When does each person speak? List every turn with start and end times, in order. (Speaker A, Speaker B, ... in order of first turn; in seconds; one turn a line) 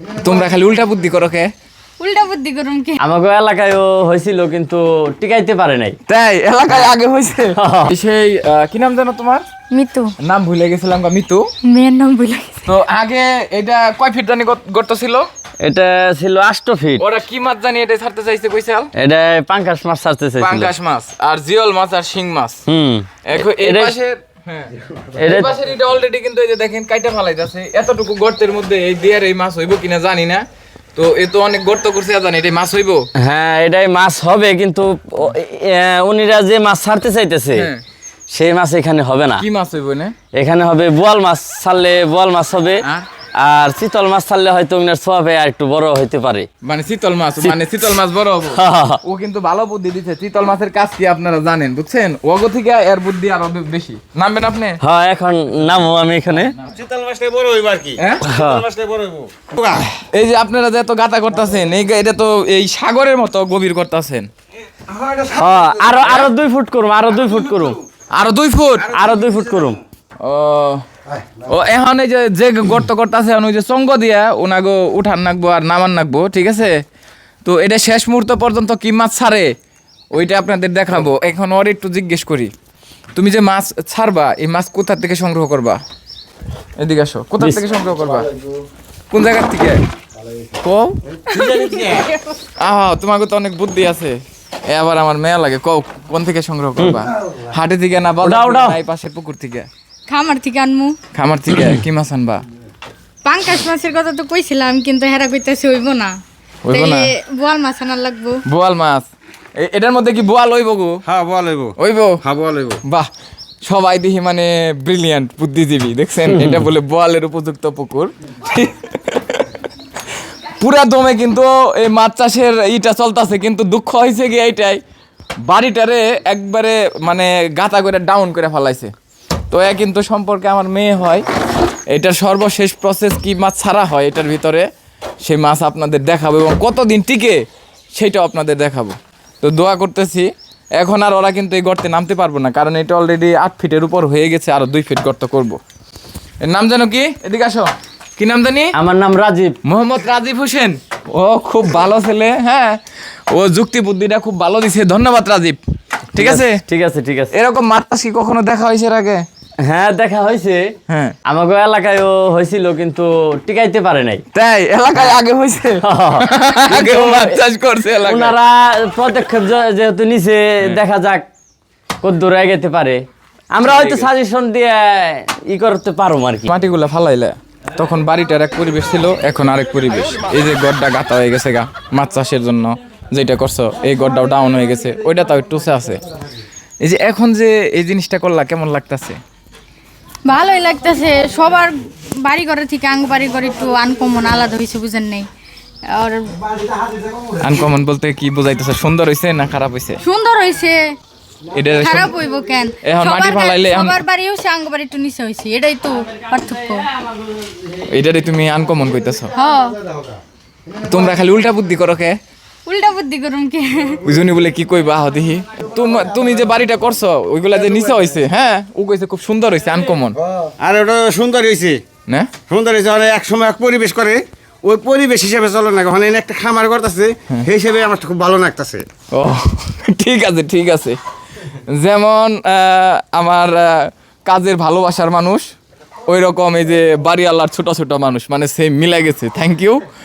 Speaker A: 0.2-1.5
Speaker B: 2.0-3.0
Speaker C: 3.0-6.0
Speaker A: 6.1-9.4
Speaker C: 7.6-7.9
Speaker B: 9.7-10.1
Speaker A: 10.2-11.4
Speaker B: 11.6-12.7
Speaker A: 12.7-15.3
Speaker C: 15.6-17.0
Speaker A: 17.0-18.9
Speaker C: 19.0-20.7
Speaker A: 20.4-22.6
Speaker C: 22.7-24.0
Speaker A: 23.2-24.7
Speaker C: 25.1-25.5
Speaker A: 25.3-30.4
Speaker A: 30.9-33.0
Speaker C: 33.2-37.7
Speaker A: 37.5-37.8
Speaker C: 38.3-39.4
Speaker A: 39.4-40.1
Speaker C: 40.3-42.8
Speaker A: 42.8-43.1
Speaker C: 43.4-46.5
Speaker A: 46.6-54.8
Speaker C: 48.5-49.0
Speaker C: 54.8-56.5
Speaker D: 56.6-59.9
Speaker A: 58.0-58.3
Speaker C: 58.2-58.6
Speaker A: 60.0-64.3
Speaker D: 64.8-65.7
Speaker C: 65.3-67.8
Speaker A: 66.0-66.3
Speaker A: 68.2-68.9
Speaker C: 68.8-69.8
Speaker A: 70.2-70.8
Speaker A: 71.4-76.8
Speaker A: 77.4-79.5
Speaker A: 80.1-82.5
Speaker A: 83.1-85.8
Speaker A: 86.8-88.3
Speaker A: 89.1-89.8
Speaker A: 90.6-91.0
Speaker D: 91.2-92.0
Speaker B: 91.3-92.3
Speaker A: 92.6-94.2
Speaker A: 94.7-99.7
Speaker C: 96.8-97.1
Speaker C: 98.2-98.8
Speaker B: 100.1-101.0
Speaker A: 101.1-102.4
Speaker B: 103.2-106.1
Speaker A: 106.7-107.1
Speaker B: 106.7-108.4
Speaker A: 108.5-111.0
Speaker D: 111.0-112.8
Speaker A: 111.8-112.2
Speaker A: 113.7-119.4
Speaker C: 116.3-116.7
Speaker A: 120.6-124.8
Speaker A: 125.5-128.9
Speaker A: 129.5-131.2
Speaker A: 131.9-134.7
Speaker A: 135.2-137.4
Speaker A: 137.9-145.6
Speaker A: 146.4-148.7
Speaker C: 148.7-149.5
Speaker A: 149.6-152.8
Speaker A: 153.3-155.6
Speaker A: 156.1-156.6
Speaker C: 156.2-157.3
Speaker A: 157.3-159.2
Speaker C: 159.6-160.7
Speaker A: 160.9-161.2
Speaker C: 161.2-164.2
Speaker A: 164.3-168.3
Speaker C: 165.8-167.4
Speaker C: 168.0-171.3
Speaker C: 172.0-173.0
Speaker C: 173.5-176.5
Speaker A: 173.6-174.1
Speaker A: 176.5-186.0
Speaker A: 186.8-189.2
Speaker B: 190.2-195.3
Speaker B: 195.9-196.3
Speaker A: 197.4-200.0
Speaker B: 200.0-200.9
Speaker A: 201.5-202.1
Speaker B: 201.8-206.9
Speaker A: 202.8-204.0
Speaker A: 207.9-209.3
Speaker B: 209.3-209.8
Speaker A: 210.8-212.2
Speaker B: 212.7-214.0
Speaker A: 214.0-220.2
Speaker D: 220.4-221.8
Speaker D: 222.5-228.8
Speaker A: 229.1-231.0
Speaker A: 231.7-235.5
Speaker A: 236.1-239.8